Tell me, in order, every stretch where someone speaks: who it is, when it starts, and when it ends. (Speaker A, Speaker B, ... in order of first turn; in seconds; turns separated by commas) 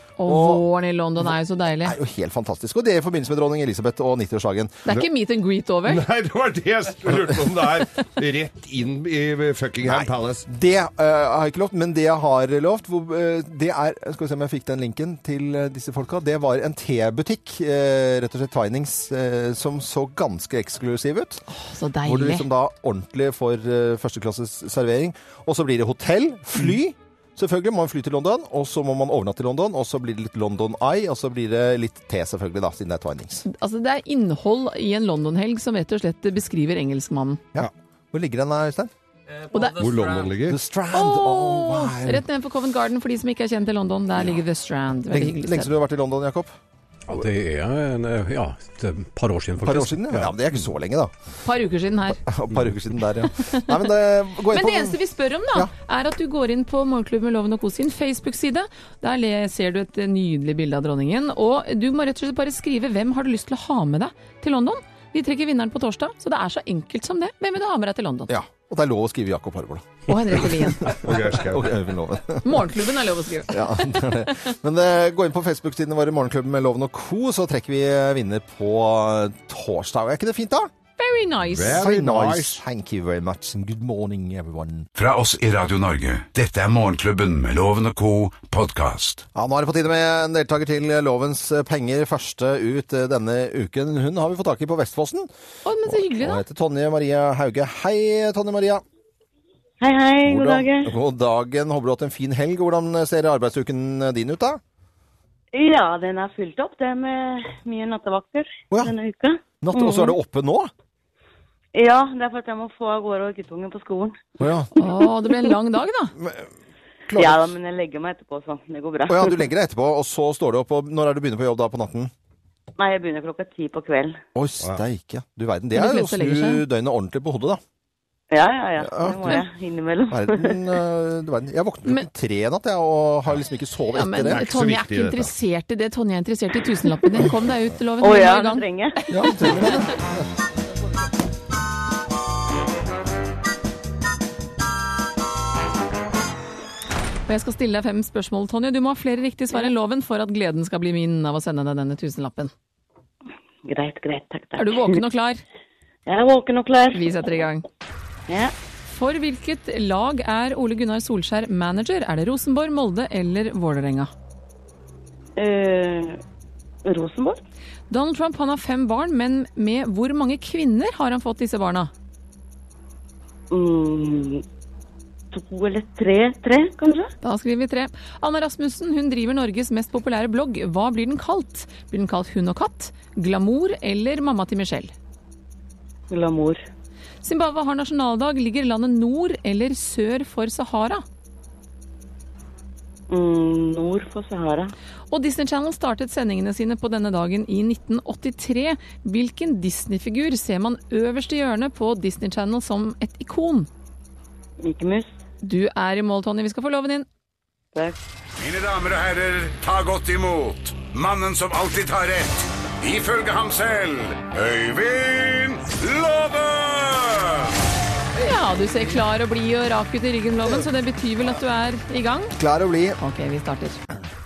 Speaker A: 0.2-1.9, Speaker B: 0.2-0.6, Speaker B: 1.2-4.9, Speaker A: 4.8-6.0, Speaker C: 5.8-10.4, Speaker B: 9.8-21.4, Speaker A: 21.5-22.5, Speaker B: 22.0-33.4, Speaker A: 33.5-37.4, Speaker B: 37.5-38.9, Speaker A: 39.5-39.8, Speaker C: 39.7-40.6, Speaker B: 40.5-42.2, Speaker A: 40.9-45.7, Speaker B: 45.1-46.5, Speaker D: 47.1-50.3, Speaker B: 49.6-51.1, Speaker A: 51.4-52.2, Speaker B: 52.3-55.0, Speaker A: 53.4-53.8, Speaker A: 54.5-68.3, Speaker B: 68.3-72.7, Speaker A: 70.1-71.0, Speaker C: 71.0-71.7, Speaker A: 72.4-74.1, Speaker B: 73.5-80.7, Speaker A: 81.0-81.8, Speaker C: 81.5-82.6, Speaker B: 81.7-84.9, Speaker E: 85.0-89.2, Speaker B: 89.3-95.3, Speaker A: 95.6-96.4, Speaker B: 95.8-98.8, Speaker F: 99.8-100.9, Speaker B: 100.2-104.6, Speaker F: 105.5-110.2, Speaker B: 109.6-110.7, Speaker F: 111.7-114.3, Speaker B: 114.4-114.7, Speaker A: 114.8-116.1, Speaker B: 116.2-116.5, Speaker B: 117.1-117.5, Speaker F: 117.2-119.4, Speaker B: 119.1-122.1, Speaker F: 122.8-124.2, Speaker B: 124.3-127.6, Speaker A: 125.7-126.6, Speaker F: 128.3-130.7, Speaker B: 128.8-129.4, Speaker B: 130.1-134.4, Speaker A: 133.9-139.8, Speaker C: 134.2-135.3, Speaker F: 138.0-139.0, Speaker B: 139.1-140.3, Speaker A: 147.3-152.5, Speaker F: 153.6-155.0, Speaker A: 154.6-155.4, Speaker F: 156.1-157.1, Speaker A: 156.9-157.6, Speaker F: 158.3-158.5, Speaker A: 158.9-164.1, Speaker F: 165.4-166.2, Speaker F: 166.8-167.4, Speaker A: 167.9-171.9, Speaker F: 173.5-174.4, Speaker F: 175.3-177.1, Speaker A: 177.2-184.9, Speaker F: 186.1-186.6, Speaker A: 187.2-191.0, Speaker F: 193.1-194.7, Speaker A: 195.1-203.7, Speaker F: 204.6-205.1, Speaker A: 205.4-207.1, Speaker E: 208.4-217.5, Speaker A: 218.2-222.3, Speaker B: 222.4-223.0, Speaker A: 223.0-223.8